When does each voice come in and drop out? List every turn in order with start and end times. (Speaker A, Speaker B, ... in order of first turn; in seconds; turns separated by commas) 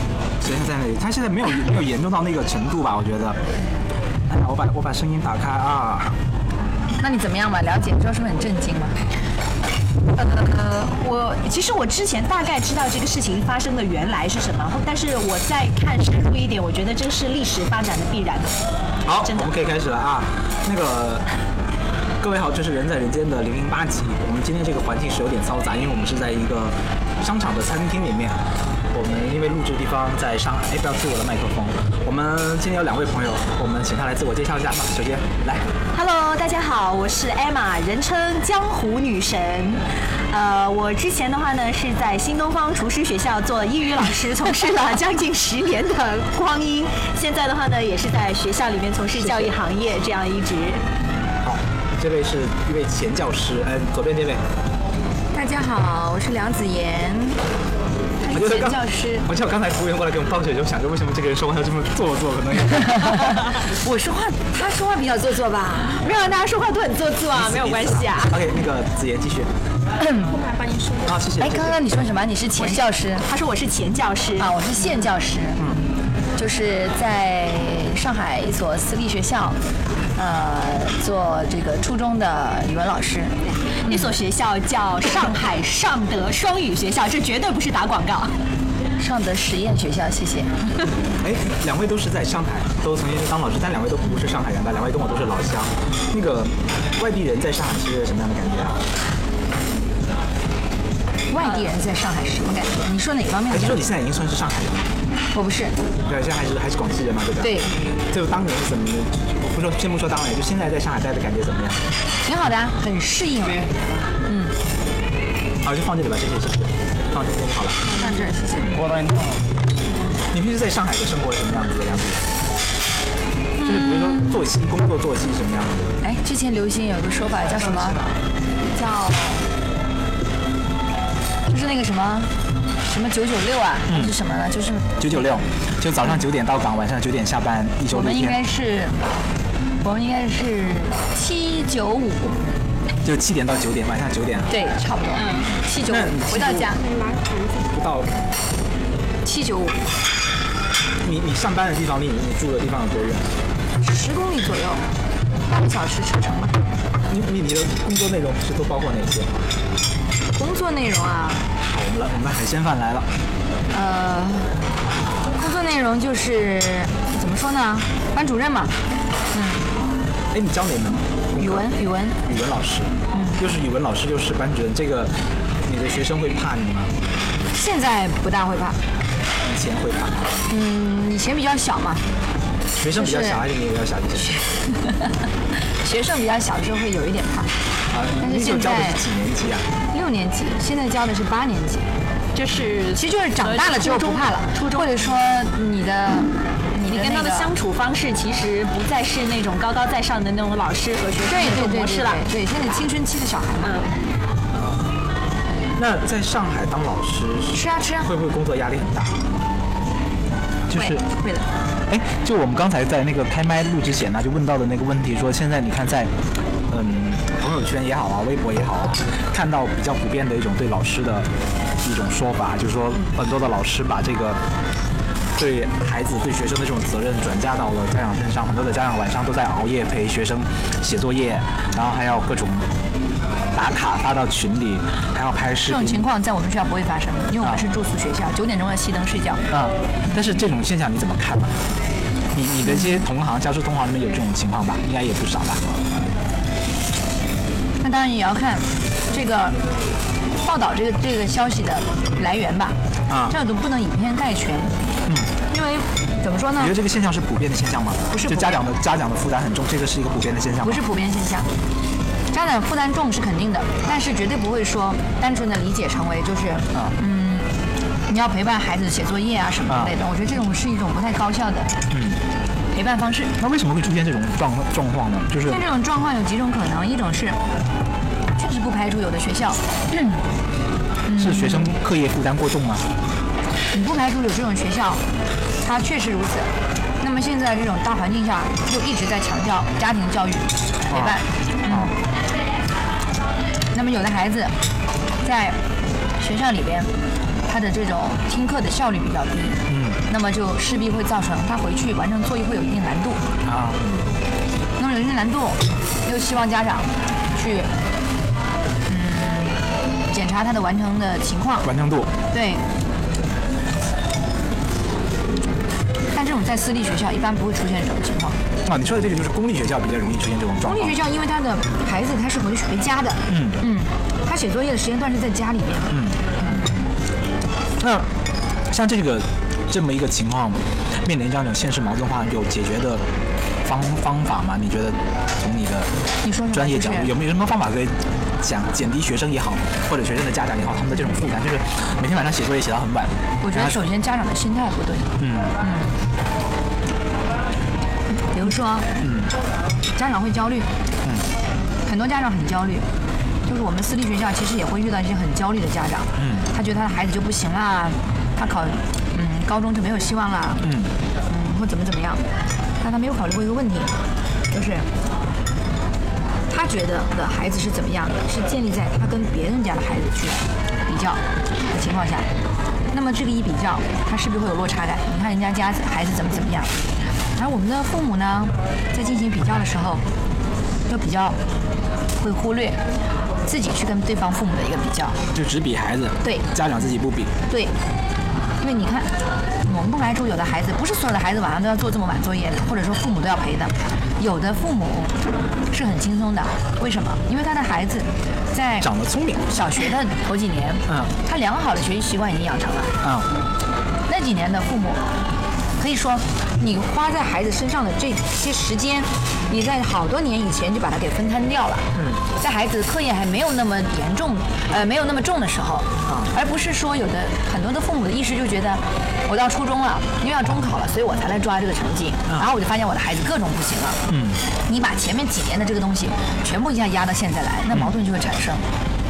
Speaker A: 0.4-3.4, Speaker A: 4.3-6.2, Speaker B: 7.0-9.0, Speaker C: 10.1-18.5, Speaker A: 19.1-21.3, Speaker C: 19.2-19.5, Speaker A: 22.2-35.6, Speaker C: 35.9-50.8, Speaker A: 49.2-49.5, Speaker A: 51.4-54.4, Speaker B: 55.3-57.4, Speaker B: 58.2-59.3, Speaker A: 58.3-63.4, Speaker B: 62.8-66.0, Speaker C: 66.0-68.4, Speaker A: 67.3-69.5, Speaker B: 70.0-70.3, Speaker C: 70.3-71.2, Speaker A: 71.0-71.9, Speaker B: 71.4-73.2, Speaker C: 72.6-74.5, Speaker B: 74.4-75.6, Speaker B: 76.3-79.6, Speaker B: 80.2-84.1, Speaker C: 83.7-88.3, Speaker B: 89.0-90.7, Speaker A: 91.2-98.8, Speaker B: 101.3-103.8, Speaker A: 103.5-104.9, Speaker B: 105.3-105.8, Speaker A: 106.0-111.8, Speaker B: 107.4-107.7, Speaker B: 112.2-113.7, Speaker B: 114.2-114.5, Speaker A: 115.6-117.9, Speaker B: 117.9-118.8, Speaker A: 120.3-122.2, Speaker A: 123.6-125.9, Speaker B: 126.0-128.0, Speaker B: 128.6-129.5, Speaker B: 131.5-135.3, Speaker A: 133.9-134.1, Speaker A: 135.0-138.4, Speaker B: 137.9-139.0, Speaker B: 139.8-142.4, Speaker A: 143.0-144.5, Speaker B: 144.5-146.8, Speaker C: 145.1-145.5, Speaker A: 145.8-146.7, Speaker C: 146.8-147.6, Speaker A: 147.7-148.2, Speaker B: 149.2-149.8, Speaker A: 151.0-153.3, Speaker B: 153.8-154.8, Speaker B: 155.4-156.6, Speaker A: 157.1-159.3, Speaker B: 160.1-161.4, Speaker A: 161.7-163.1, Speaker B: 163.7-164.6, Speaker B: 165.3-168.8, Speaker B: 169.3-169.7, Speaker A: 170.3-171.7, Speaker B: 171.4-172.2, Speaker A: 172.2-176.9, Speaker B: 173.1-173.4, Speaker B: 177.5-178.8, Speaker A: 179.4-180.4, Speaker B: 180.5-182.0, Speaker A: 182.8-184.4, Speaker B: 182.9-183.4, Speaker B: 184.2-187.5, Speaker A: 187.9-189.7, Speaker B: 188.2-189.0, Speaker B: 189.9-191.9, Speaker C: 192.3-194.9, Speaker B: 192.9-197.5, Speaker C: 196.9-202.2, Speaker B: 201.3-203.8, Speaker A: 205.8-209.2, Speaker B: 207.5-208.1, Speaker A: 210.7-211.0, Speaker B: 210.7-211.5, Speaker A: 211.9-216.1, Speaker A: 216.7-221.3, Speaker A: 221.8-224.4, Speaker A: 225.3-232.7, Speaker A: 233.5-236.0, Speaker B: 235.6-239.4, Speaker A: 239.5-241.6, Speaker A: 242.3-245.9, Speaker B: 247.8-249.6, Speaker B: 250.4-252.8, Speaker A: 253.1-253.3, Speaker B: 253.3-254.7, Speaker B: 255.5-256.7, Speaker A: 256.6-260.8, Speaker B: 258.1-258.6, Speaker B: 260.6-261.5, Speaker B: 262.3-267.5, Speaker B: 268.1-271.8, Speaker A: 269.7-269.9, Speaker A: 271.9-272.2, Speaker B: 272.7-273.3, Speaker A: 273.4-275.6, Speaker B: 275.4-277.4, Speaker B: 278.4-280.1, Speaker B: 281.1-281.7, Speaker A: 281.1-282.9, Speaker B: 283.7-285.0, Speaker B: 285.6-291.9, Speaker A: 290.9-291.9, Speaker B: 293.7-294.6, Speaker B: 295.2-295.6, Speaker B: 296.2-296.9, Speaker B: 297.5-303.2, Speaker A: 299.7-300.0, Speaker A: 303.4-303.8, Speaker B: 304.8-307.7, Speaker B: 308.9-309.6, Speaker B: 310.1-311.7, Speaker A: 311.6-312.1, Speaker B: 312.3-312.6, Speaker B: 316.1-318.4, Speaker A: 318.6-320.9, Speaker B: 320.6-325.9, Speaker A: 323.3-323.6, Speaker A: 325.9-326.7, Speaker A: 327.8-328.1, Speaker A: 328.7-333.0, Speaker A: 333.6-335.9, Speaker B: 336.2-337.1, Speaker A: 336.5-343.8, Speaker B: 343.4-345.9, Speaker A: 345.2-345.5, Speaker B: 348.3-348.9, Speaker A: 349.0-349.3, Speaker B: 349.9-350.7, Speaker B: 351.9-352.9, Speaker B: 353.4-360.6, Speaker A: 356.2-356.4, Speaker A: 360.6-360.9, Speaker B: 361.3-362.2, Speaker B: 362.8-363.9, Speaker B: 364.5-364.9, Speaker B: 366.5-372.3, Speaker B: 372.9-376.7, Speaker B: 377.3-380.0, Speaker B: 380.9-381.4, Speaker B: 382.1-382.8, Speaker B: 383.4-385.2, Speaker A: 385.3-387.3, Speaker B: 388.6-395.2, Speaker B: 395.7-398.9, Speaker A: 398.8-399.5, Speaker B: 399.5-402.9, Speaker A: 403.0-403.3, Speaker B: 404.1-405.1, Speaker B: 405.8-424.0, Speaker A: 411.9-412.2, Speaker A: 424.1-424.4, Speaker B: 424.7-428.6